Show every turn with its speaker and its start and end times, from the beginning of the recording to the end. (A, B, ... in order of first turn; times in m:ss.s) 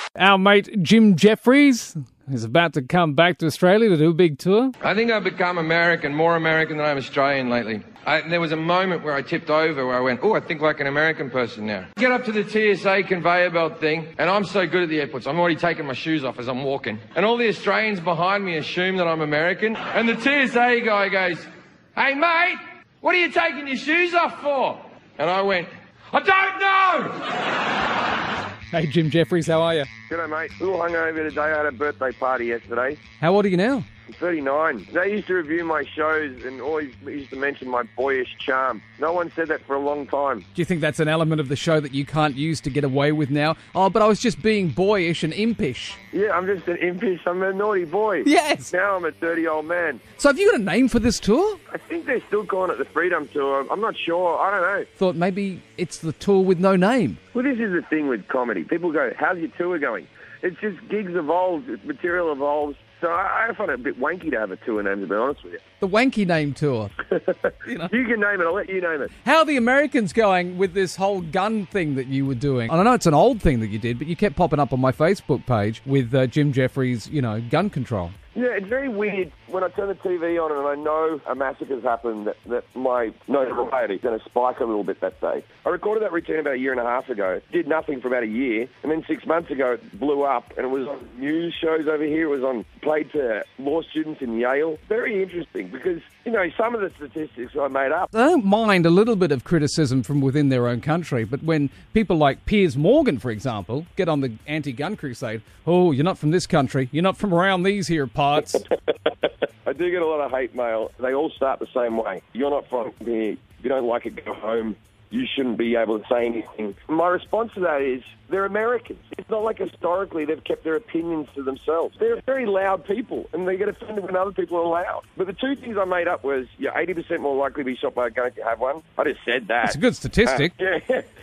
0:00.2-0:04.7 A
0:04.8-0:27.3 B
0:28.7-0:29.9 A
0:30.1-0:33.0 C
0:33.2-0:33.9 A
0:34.1-0:40.5 C
0:40.6-0:46.0 A
0:46.1-0:50.0 C
0:48.2-0:48.7 A
0:50.2-0:51.6 A
0:51.7-0:54.9 C
0:55.0-0:57.2 A
0:57.3-1:05.6 C
1:05.8-1:06.9 A
1:07.1-1:09.1 C
1:07.7-1:07.9 A
1:09.2-1:18.2 A
1:18.4-1:38.1 C
1:38.1-1:48.6 A
1:49.6-2:11.0 C
2:09.6-2:10.5 A